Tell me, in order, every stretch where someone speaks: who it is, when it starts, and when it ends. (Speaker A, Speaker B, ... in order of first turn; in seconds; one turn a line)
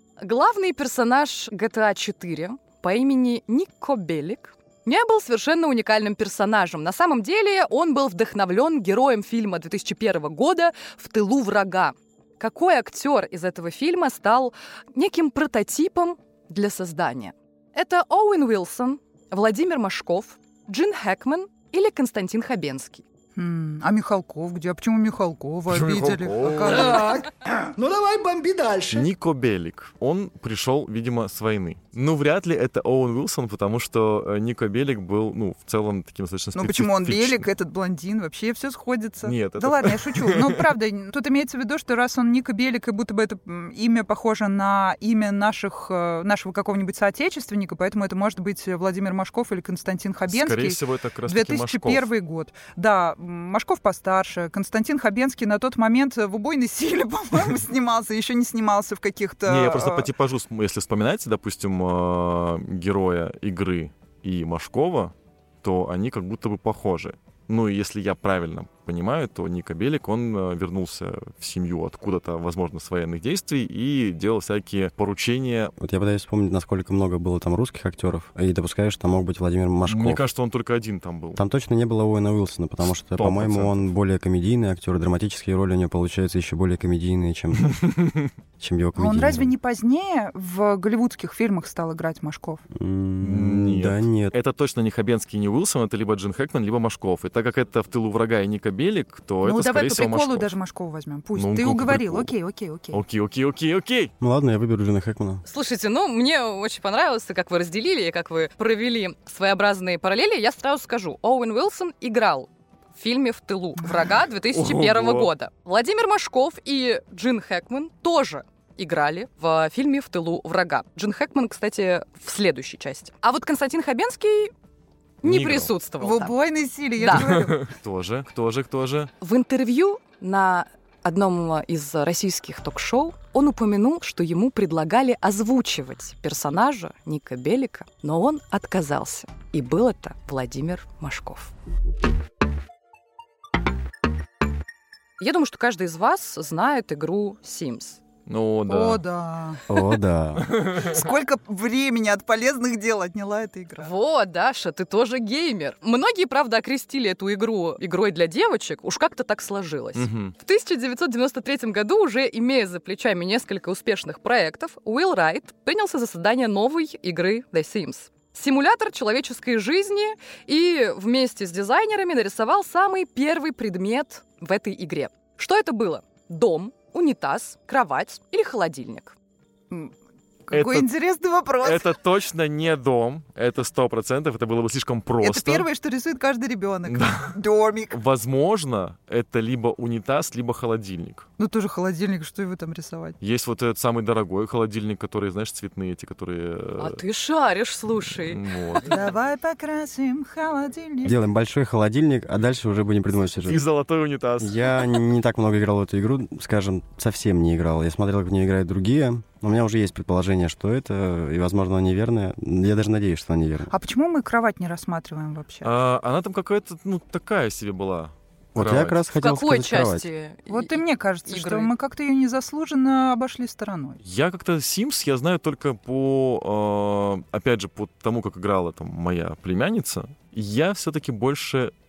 Speaker A: 0.2-23.0
Speaker B: 23.4-27.1
Speaker C: 25.7-27.2
Speaker D: 26.8-28.9
Speaker C: 28.8-37.5
Speaker B: 36.5-60.1
Speaker C: 39.2-40.7
Speaker C: 50.3-52.1
Speaker C: 59.5-75.7
Speaker E: 75.8-80.2
Speaker C: 79.9-81.4
Speaker E: 81.4-87.8
Speaker C: 83.1-83.8
Speaker C: 87.6-88.3
Speaker E: 88.6-89.5
Speaker B: 89.0-92.6
Speaker E: 92.7-94.3
Speaker C: 93.2-100.5
Speaker B: 99.4-103.0
Speaker C: 101.3-102.3
Speaker C: 102.9-104.1
Speaker E: 104.2-105.4
Speaker A: 105.5-124.5
Speaker C: 114.5-115.3
Speaker C: 125.2-125.7
Speaker A: 125.2-126.4
Speaker B: 126.0-127.7
Speaker A: 127.0-127.4
Speaker C: 127.0-129.1
Speaker A: 129.2-141.5
Speaker A: 145.2-148.0
Speaker C: 148.3-149.0
Speaker B: 148.7-149.6
Speaker E: 149.7-150.4
Speaker C: 150.4-150.9
Speaker B: 150.5-153.9
Speaker A: 153.8-179.2
Speaker C: 160.0-160.3
Speaker B: 180.5-181.9
Speaker C: 180.5-180.9
Speaker C: 181.6-185.7
Speaker B: 185.2-188.0
Speaker C: 186.9-187.3
Speaker C: 187.9-191.3
Speaker B: 191.4-193.2
Speaker C: 193.2-197.0
Speaker A: 196.8-198.4
Speaker C: 198.1-199.1
Speaker B: 198.9-201.2
Speaker E: 201.0-203.6
Speaker C: 203.4-204.9
Speaker E: 204.4-213.7
Speaker B: 213.7-215.7
Speaker C: 215.6-219.1
Speaker E: 218.6-220.1
Speaker A: 219.2-221.7
Speaker B: 220.5-224.0
Speaker C: 224.0-231.7